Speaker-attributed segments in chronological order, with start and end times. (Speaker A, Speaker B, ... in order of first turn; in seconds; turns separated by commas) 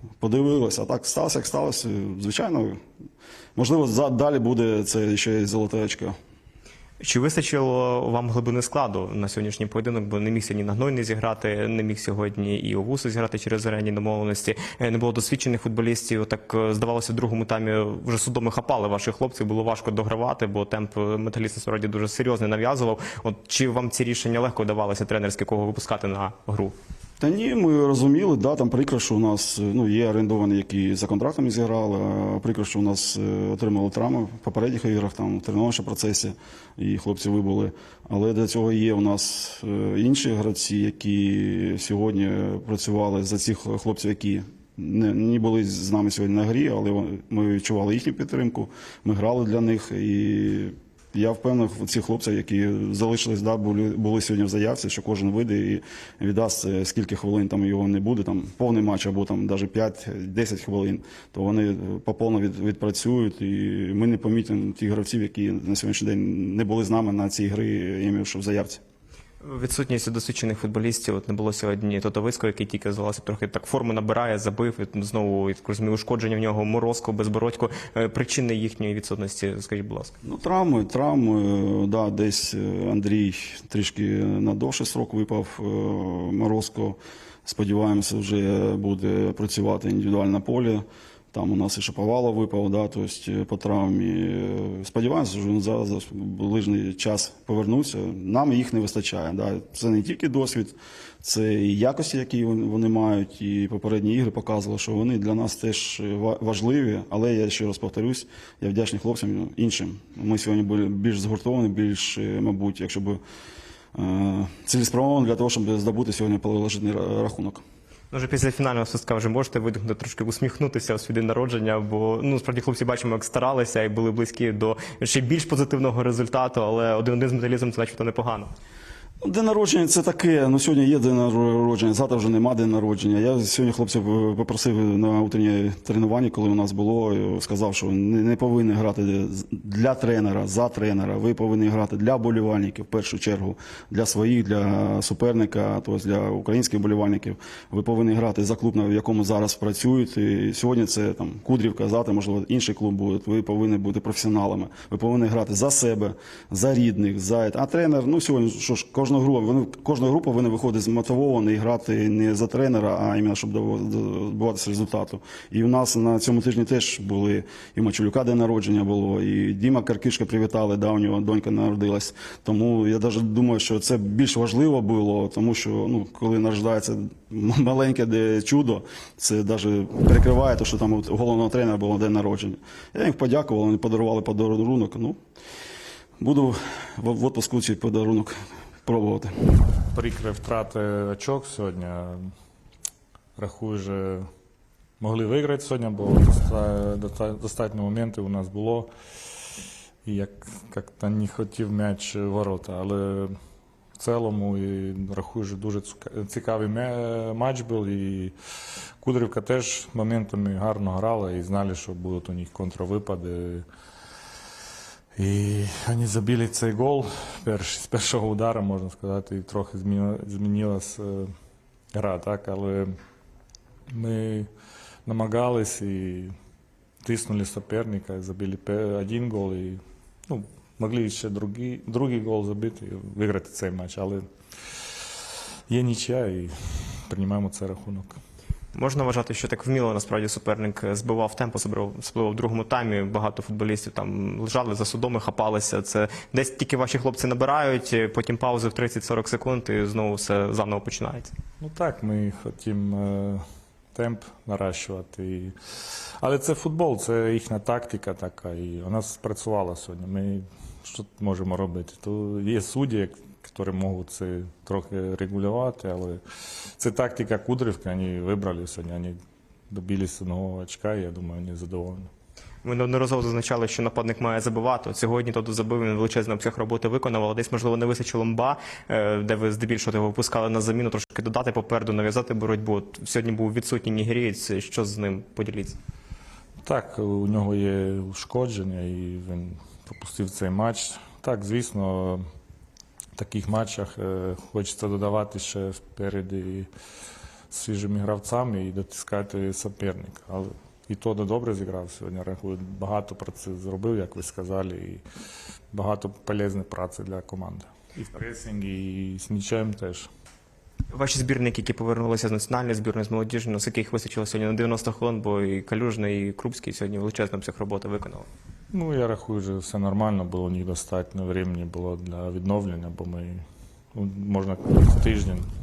Speaker A: 0.2-2.8, Speaker A: 3.6-6.2, Speaker B: 7.0-26.8, Speaker A: 27.2-68.8, Speaker B: 69.4-80.2, Speaker A: 80.2-113.2, Speaker A: 114.0-117.6, Speaker B: 118.1-128.5, Speaker A: 129.2-185.2, Speaker A: 186.2-189.3, Speaker C: 189.9-192.3, Speaker C: 193.4-194.3, Speaker C: 195.0-198.9, Speaker C: 200.1-203.3, Speaker C: 204.0-208.3, Speaker C: 209.0-213.7, Speaker C: 215.2-221.3, Speaker C: 221.9-222.9, Speaker C: 223.9-224.5, Speaker C: 225.1-226.3, Speaker C: 227.0-234.2, Speaker C: 235.7-238.2, Speaker B: 238.8-251.3, Speaker C: 251.6-253.4, Speaker C: 253.9-255.5, Speaker C: 256.2-266.2, Speaker C: 266.8-269.2, Speaker C: 269.7-272.1, Speaker B: 272.6-285.8, Speaker C: 286.6-292.2, Speaker C: 293.2-296.7, Speaker C: 297.5-305.0, Speaker C: 305.7-310.1, Speaker B: 310.9-318.3, Speaker C: 318.7-323.4, Speaker C: 323.9-325.5